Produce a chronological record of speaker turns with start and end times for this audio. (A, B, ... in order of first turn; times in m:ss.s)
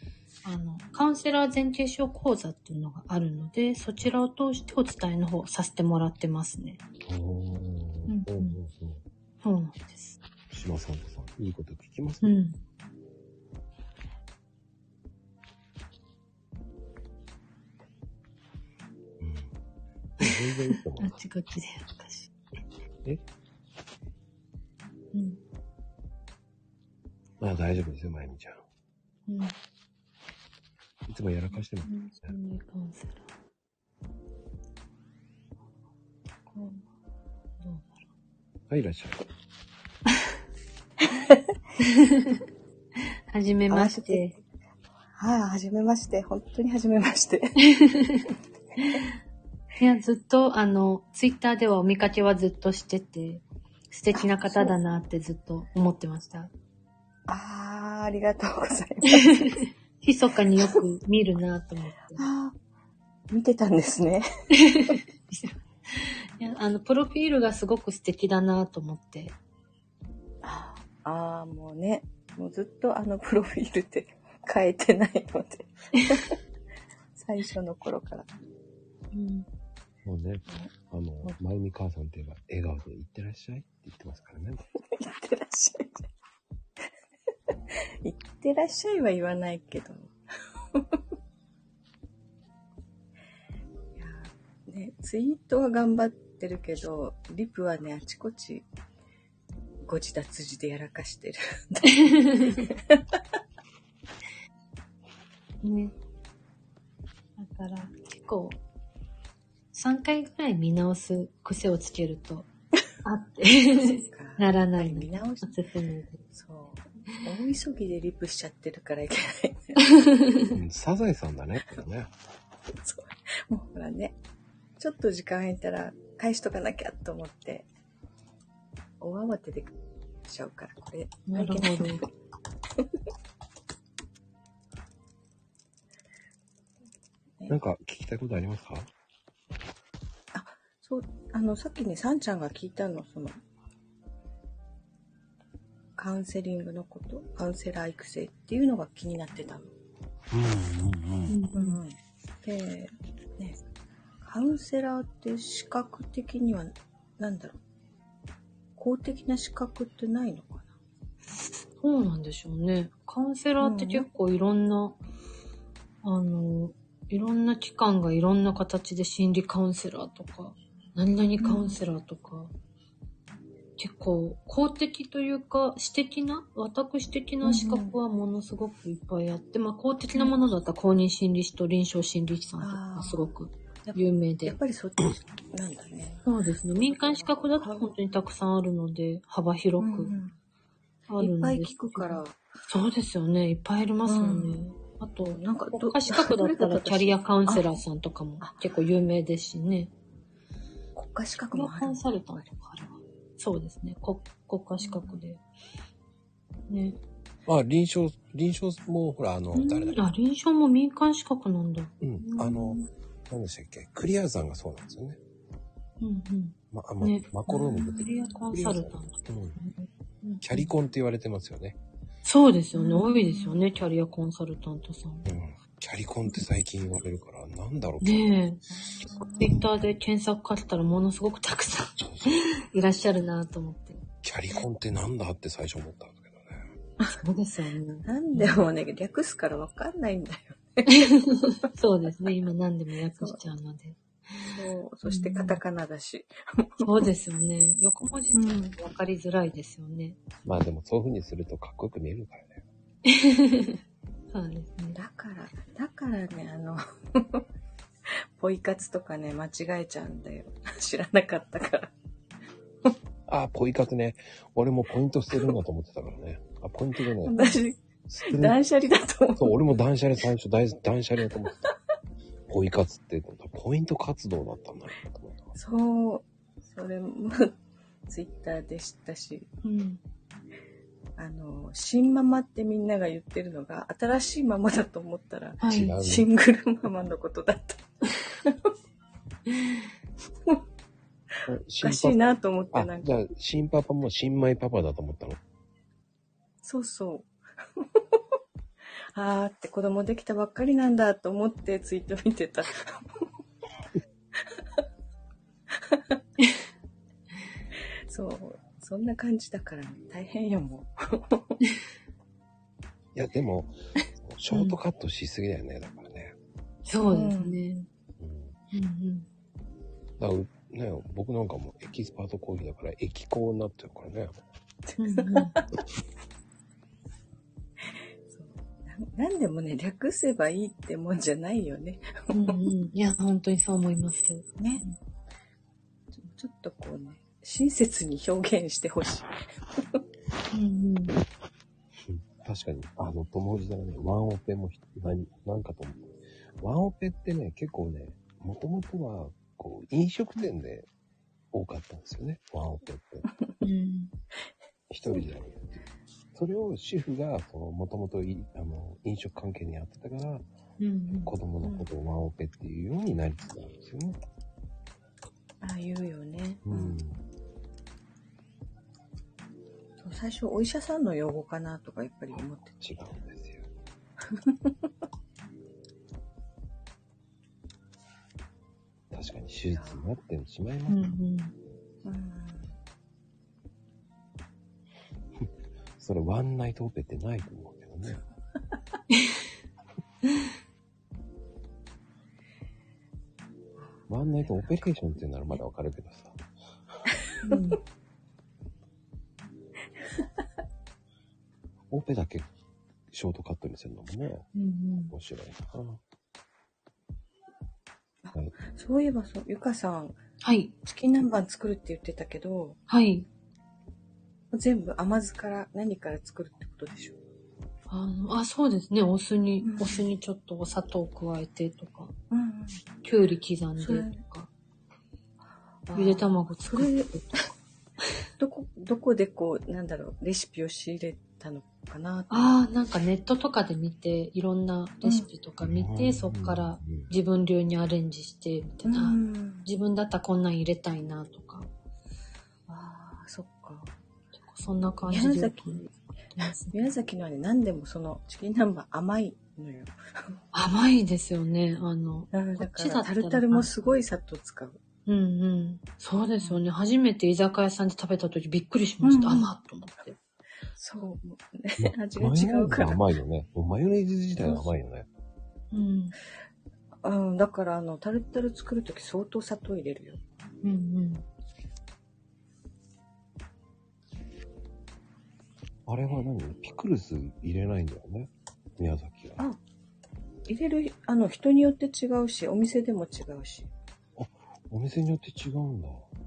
0:00.4-0:06.8 A
0:07.1-0:09.0 B
0:08.1-0:08.6 A
0:09.4-0:10.2 A
0:10.5-0:12.3 B
0:12.2-0:12.6 A
0:19.2-0:19.5 B
0:20.2-0:21.2 B
0:20.2-0:22.3 A
0:25.1-0:25.4 A
0:27.4-0:28.6 B
0:29.3-0:29.6 A
0:31.1-0:32.4 B
0:31.8-0:33.3 A
0:36.5-0:36.8 A
0:37.6-0:38.0 A
0:38.7-0:39.3 B
0:41.1-0:41.4 C
0:41.8-0:42.4 A
0:43.3-0:44.3 A
0:43.7-0:44.4 C
0:45.2-0:47.6 C
0:47.6-0:49.1 A
0:49.8-0:56.5 A
0:54.1-0:54.8 C
0:57.3-0:59.6 C
0:59.1-1:02.2 A
1:02.2-1:02.6 C
1:03.3-1:04.3 C
1:04.6-1:09.4 A
1:10.4-1:16.4 C
1:17.2-1:18.3 C
1:19.1-1:19.5 A
1:20.0-1:24.6 B
1:24.9-1:26.1 C
1:28.0-1:30.2 C
1:30.7-1:31.0 C
1:34.0-1:38.7 C
1:39.8-1:43.2 C
1:42.1-1:42.7 A
1:45.6-1:45.9 A
1:47.4-1:48.6 A
1:49.7-1:52.5 A
1:53.0-1:56.2 A
1:53.8-1:55.6 C
1:56.3-1:59.9 C
1:59.9-2:00.5 A
2:00.5-2:02.1 B
2:02.8-2:04.2 C
2:04.8-2:07.7 C
2:09.0-2:12.1 C
2:11.3-2:12.1 A
2:17.5-2:18.9 B
2:20.3-2:23.4 C
2:26.0-2:29.7 C
2:30.3-2:31.4 B
2:31.3-2:31.8 A
2:31.5-2:33.6 C
2:34.2-2:37.6 C
2:38.8-2:40.7 C
2:41.8-2:45.0 A
2:43.6-2:44.1 C
2:46.0-2:52.5 A
2:51.4-2:51.8 C
2:53.8-3:04.6 A
2:57.4-2:58.0 C
3:02.6-3:03.3 C
3:03.8-3:06.2 C
3:06.2-3:10.2 A
3:06.8-3:07.9 C
3:09.8-3:10.4 C
3:11.1-3:19.9 A
3:11.2-3:12.4 C
3:14.0-3:14.6 C
3:15.2-3:17.7 C
3:18.4-3:18.7 C
3:21.0-3:22.4 C
3:21.5-3:25.4 A
3:24.8-3:25.2 C
3:26.7-3:27.0 A
3:27.5-3:30.0 B
3:29.5-3:32.9 A
3:32.0-3:35.2 B
3:36.0-3:40.7 A
3:36.7-3:39.6 B
3:37.6-3:38.3 C
3:40.4-3:41.8 B
3:42.2-3:45.3 A
3:42.7-3:43.6 C
3:45.3-3:48.3 B
3:48.0-3:48.6 A
3:48.7-3:49.6 C
3:49.4-3:54.0 A
3:52.0-3:52.3 B
3:54.2-3:56.6 B
3:57.2-3:58.6 A
3:58.0-4:01.4 C
4:00.9-4:05.6 A
4:04.4-4:06.9 C
4:06.8-4:10.2 A
4:08.3-4:08.8 C
4:10.5-4:12.6 B
4:13.1-4:13.8 A
4:14.3-4:15.0 A
4:15.0-4:17.4 C
4:18.4-4:21.9 C
4:23.3-4:27.6 B
4:27.2-4:29.5 C
4:28.1-4:28.6 B
4:29.4-4:31.6 B
4:32.5-4:35.5 B
4:35.6-4:39.5 C
4:39.6-4:40.0 A
4:41.2-4:48.7 C
4:45.6-4:46.1 A
4:45.7-4:46.3 B
4:51.5-4:55.4 B
4:51.8-4:53.1 C
4:56.6-4:58.2 C
4:59.1-5:03.0 C
5:05.9-5:06.2 C
5:08.1-5:11.6 C
5:13.2-5:16.4 B
5:14.5-5:14.8 A
5:16.9-5:17.9 A
5:17.1-5:17.6 C
5:18.2-5:18.6 B
5:18.7-5:19.3 A
5:20.2-5:24.4 B
5:24.9-5:25.6 C
5:25.0-5:25.5 A
5:28.3-5:32.6 C
5:32.3-5:35.0 A
5:34.6-5:34.8 C
5:36.1-5:40.0 C
5:40.5-5:41.2 A
5:42.0-5:50.9 B
5:51.5-5:53.3 B
5:53.3-5:53.5 C
5:53.6-5:54.1 A
5:54.9-5:55.8 B
5:56.3-6:00.4 B
6:00.8-6:01.3 A
6:01.3-6:04.2 B
6:05.6-6:07.0 C
6:06.7-6:07.2 B
6:10.0-6:12.8 C
6:12.3-6:13.7 B
6:14.2-6:14.9 C
6:19.1-6:21.1 B
6:19.7-6:20.0 C
6:20.9-6:21.5 A
6:22.0-6:22.8 C
6:25.4-6:28.2 B
6:29.1-6:29.4 A
6:33.8-6:34.9 C
6:34.1-6:36.4 B
6:37.3-6:37.6 C
6:37.4-6:37.8 A
6:41.9-6:42.5 B
6:43.1-6:44.5 B
6:44.6-6:45.1 A
6:45.1-6:46.0 B
6:48.2-6:50.2 C
6:50.4-6:50.7 A
6:50.8-6:52.8 C
6:52.9-6:53.3 A
6:54.5-6:57.2 C
6:57.9-7:02.1 A
6:59.6-7:00.0 C
7:02.3-7:02.8 C
7:03.0-7:04.5 A
7:03.8-7:04.2 C
7:05.9-7:07.4 C
7:05.9-7:07.4 A
7:08.4-7:12.6 C
7:12.3-7:21.7 A
7:15.6-7:17.1 B
7:18.8-7:19.7 C
7:22.7-7:23.9 C
7:24.5-7:26.9 A
7:25.1-7:30.4 C
7:30.5-7:34.0 A
7:32.3-7:34.8 C
7:35.1-7:40.2 A
7:39.0-7:39.5 C
7:40.8-7:43.0 C
7:41.8-7:45.1 B
7:44.4-7:44.7 C
7:45.7-7:46.2 A
7:47.0-7:50.2 C
7:50.6-7:51.2 A
7:55.9-7:59.4 B
8:00.5-8:03.7 C
8:04.2-8:06.1 B